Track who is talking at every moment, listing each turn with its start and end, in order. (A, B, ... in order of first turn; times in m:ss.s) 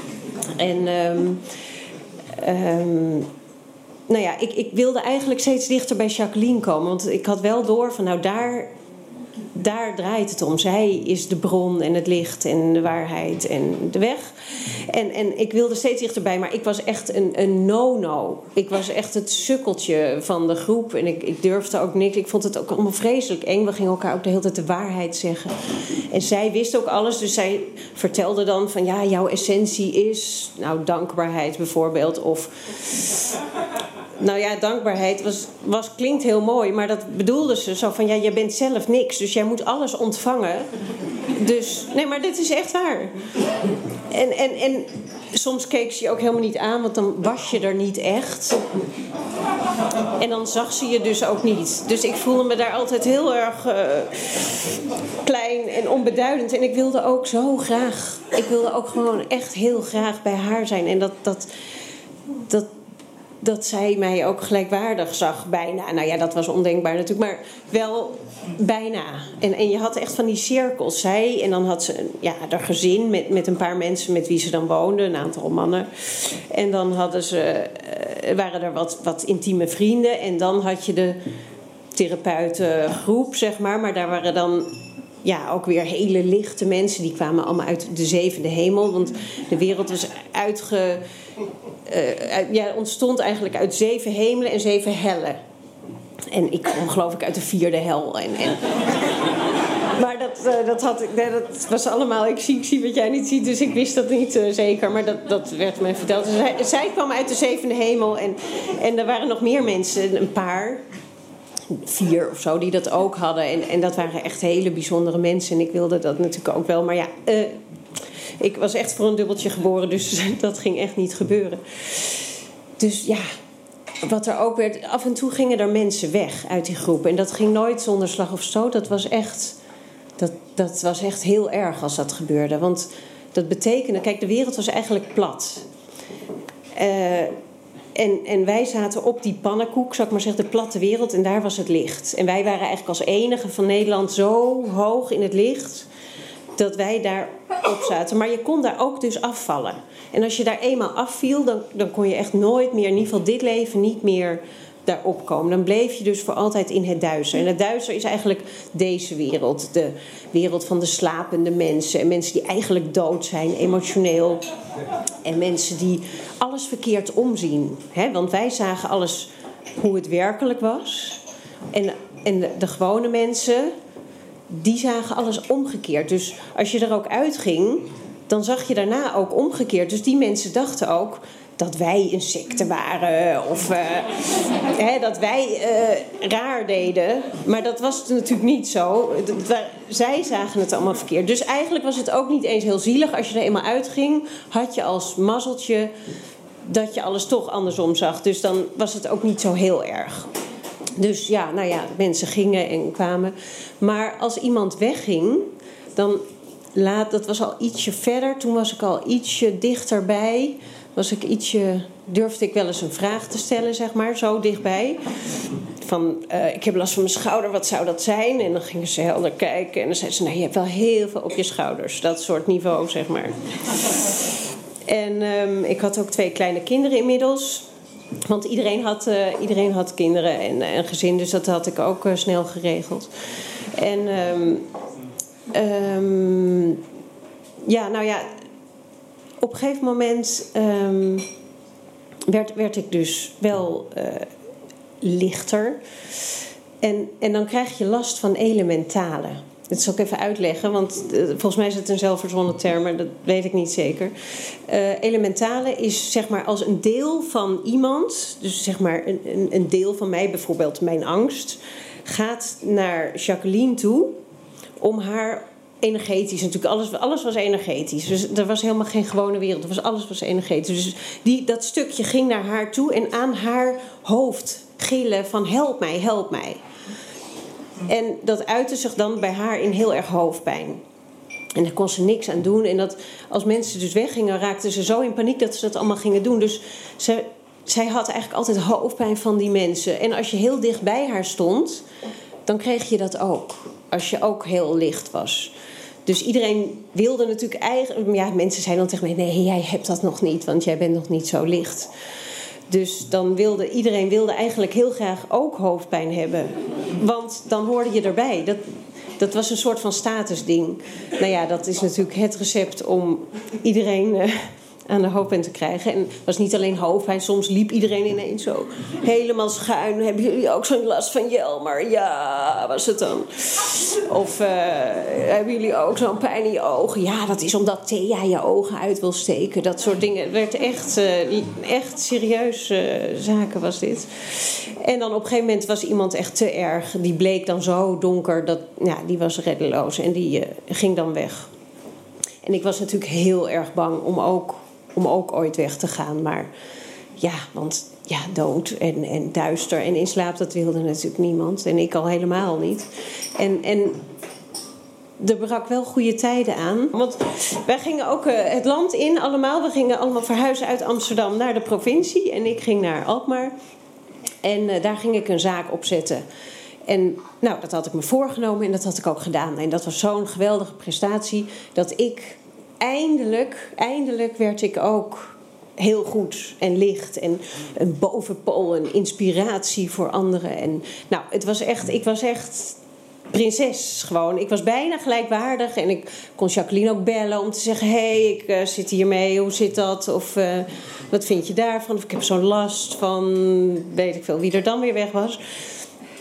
0:00.5-0:01.4 A
0:02.3-0:03.3 A
0:04.1-0:08.7 A
0:09.5-0:33.3 A
0:34.2-0:40.7 A
0:41.3-0:43.1 A
0:44.1-0:48.6 A
0:50.2-1:01.5 A
1:03.4-1:21.2 A
1:21.9-1:31.0 A
1:31.8-1:35.4 A
1:36.3-1:38.7 A
1:39.9-1:50.8 A
1:51.7-1:57.6 A
1:58.4-2:02.2 A
2:02.8-2:03.2 A
2:04.0-2:09.6 A
2:10.2-2:15.7 A
2:16.7-2:17.3 A
2:17.9-2:25.9 A
2:26.6-2:44.4 A
2:45.2-2:53.7 A
2:54.5-3:15.9 A
3:16.6-3:20.3 A
3:21.0-3:26.2 A
3:26.7-3:43.3 A
3:44.8-3:47.7 A
3:48.2-3:53.1 A
3:53.7-3:54.7 A
3:55.5-3:56.8 A
3:57.6-3:58.3 A
3:59.4-4:01.3 A
4:02.3-4:04.3 A
4:05.0-4:05.8 A
4:06.8-4:14.1 A
4:14.7-4:24.2 A
4:24.8-4:36.6 A
4:37.8-4:40.8 A
4:41.5-4:51.8 A
4:52.4-4:55.5 A
4:56.0-5:01.9 A
5:02.7-5:08.6 A
5:09.2-5:41.5 A
5:42.4-5:46.5 A
5:47.2-5:54.0 A
5:55.2-6:03.5 A
6:04.4-6:06.2 A
6:06.9-6:22.8 A
6:23.3-6:35.4 A